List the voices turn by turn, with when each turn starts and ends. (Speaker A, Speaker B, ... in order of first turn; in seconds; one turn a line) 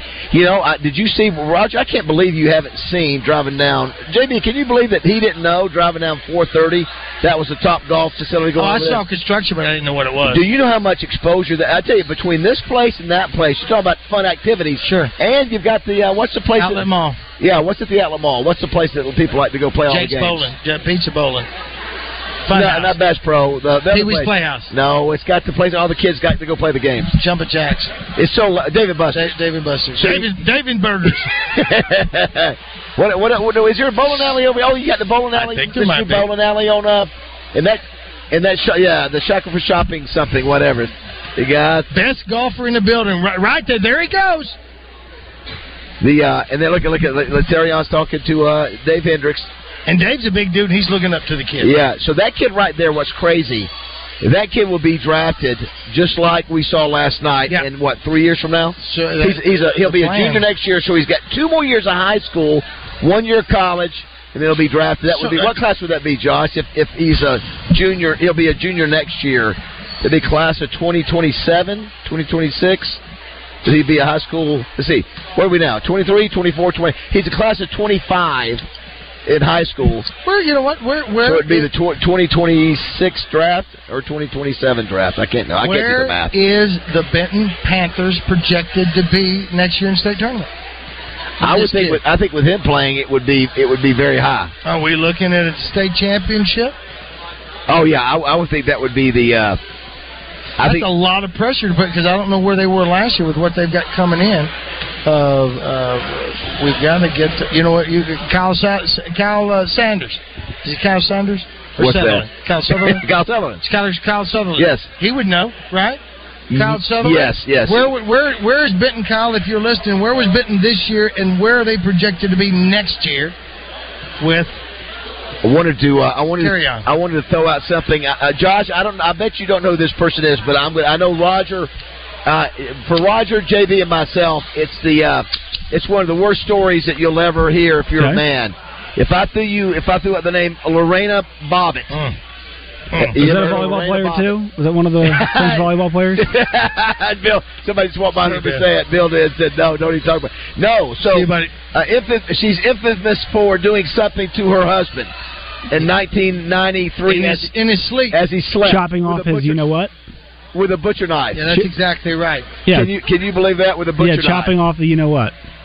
Speaker A: 0.3-9.0
Speaker B: 8.6-10.4
Speaker A: 10.2-16.9
Speaker B: 14.8-15.1
Speaker B: 16.6-17.2
Speaker A: 17.4-20.5
Speaker B: 19.9-21.5
Speaker B: 22.5-22.9
Speaker A: 22.5-27.1
Speaker B: 23.9-24.7
Speaker B: 27.1-28.0
Speaker A: 28.1-29.3
Speaker B: 29.1-31.3
Speaker A: 30.0-30.3
Speaker A: 31.0-41.9
Speaker B: 35.3-36.2
Speaker B: 41.9-44.6
Speaker A: 46.0-49.5
Speaker B: 49.9-51.8
Speaker A: 51.6-53.7
Speaker A: 54.2-73.0
Speaker B: 58.8-60.4
Speaker B: 65.1-65.6
Speaker A: 73.6-78.6
Speaker A: 79.2-80.1
Speaker B: 80.2-81.7
Speaker A: 81.2-86.3
Speaker B: 85.6-90.5
Speaker A: 91.4-94.5
Speaker B: 91.4-92.0
Speaker B: 94.6-96.7
Speaker A: 97.7-99.6
Speaker A: 100.6-100.9
Speaker B: 100.6-104.5
Speaker B: 105.0-113.0
Speaker A: 111.8-113.6
Speaker B: 113.6-116.0
Speaker A: 114.5-114.9
Speaker A: 116.5-117.9
Speaker B: 116.5-123.3
Speaker B: 124.2-124.6
Speaker A: 125.4-131.7
Speaker B: 126.4-126.9
Speaker A: 132.2-142.0
Speaker B: 141.9-142.2
Speaker B: 142.9-143.2
Speaker A: 143.0-144.3
Speaker C: 143.2-146.2
Speaker A: 145.0-155.1
Speaker B: 148.2-148.6
Speaker B: 151.1-151.5
Speaker A: 155.7-157.5
Speaker B: 157.1-158.2
Speaker A: 158.1-159.6
Speaker C: 158.6-159.9
Speaker A: 160.5-161.7
Speaker B: 161.3-162.6
Speaker C: 162.7-162.9
Speaker A: 162.7-164.5
Speaker C: 164.0-165.3